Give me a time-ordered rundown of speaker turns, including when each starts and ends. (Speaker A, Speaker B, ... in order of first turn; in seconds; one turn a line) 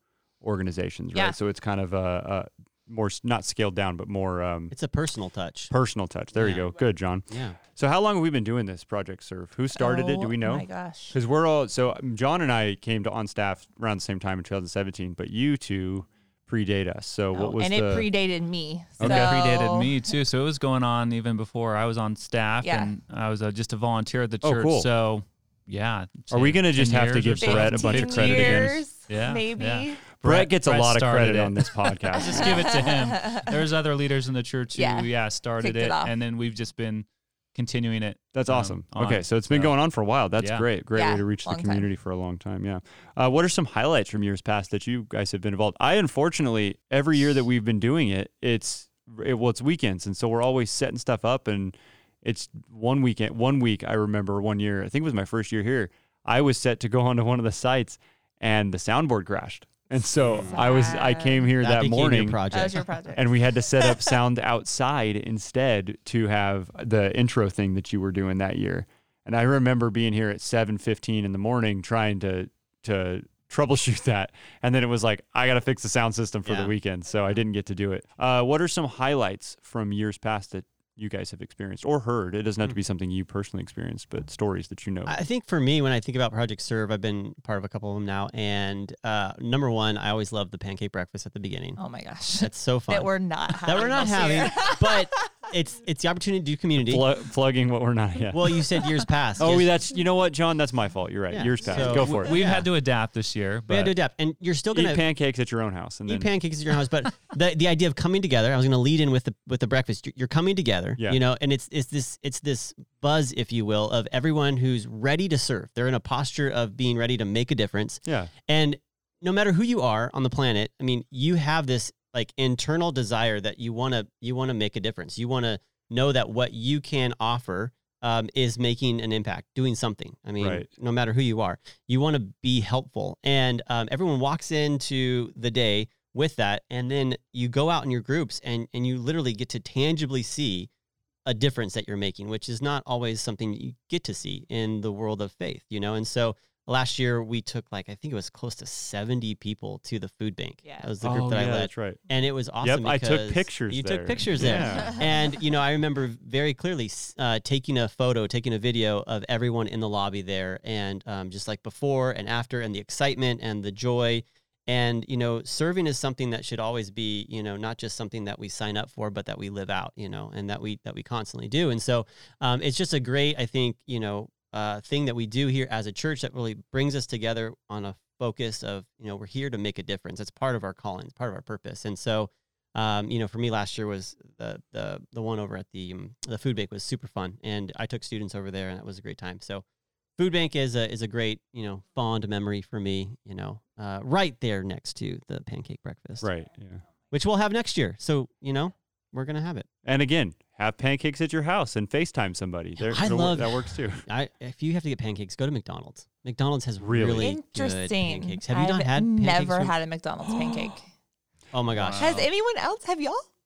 Speaker A: 0.4-4.7
Speaker B: 4.7-5.7
Speaker A: 5.7-18.1
Speaker B: 6.3-6.7
Speaker B: 7.3-7.6
Speaker C: 9.8-11.2
Speaker C: 17.3-20.1
Speaker A: 19.0-19.3
Speaker D: 19.0-39.8
Speaker C: 22.6-22.9
Speaker A: 24.4-24.9
Speaker A: 26.3-28.8
Speaker C: 27.4-30.0
Speaker A: 30.2-32.6
Speaker C: 32.2-33.5
Speaker C: 34.7-36.1
Speaker A: 38.3-62.4
Speaker D: 40.4-40.7
Speaker C: 40.9-41.9
Speaker B: 60.3-60.6
Speaker C: 60.5-61.5
Speaker B: 61.6-62.9
Speaker C: 62.5-64.1
Speaker A: 63.1-85.2
Speaker B: 76.5-76.7
Speaker B: 85.1-91.8
Speaker C: 91.8-95.4
Speaker B: 92.3-97.0
Speaker A: 96.8-98.6
Speaker B: 98.3-99.7
Speaker A: 99.4-102.4
Speaker B: 101.3-102.7
Speaker D: 101.9-103.9
Speaker B: 103.7-105.0
Speaker A: 104.7-106.3
Speaker B: 106.1-140.7
Speaker A: 118.0-118.3
Speaker A: 130.4-130.7
Speaker B: 141.2-189.6
Speaker C: 150.6-150.9
Speaker A: 151.0-152.0
Speaker A: 152.6-155.0
Speaker C: 154.4-155.1
Speaker B: 190.2-196.3
Speaker A: 196.2-196.8
Speaker B: 197.1-199.7
Speaker A: 199.8-204.0
Speaker B: 202.8-209.7
Speaker A: 206.8-207.4
Speaker C: 207.2-210.9
Speaker B: 211.5-212.1
Speaker D: 211.7-212.3
Speaker C: 212.0-213.2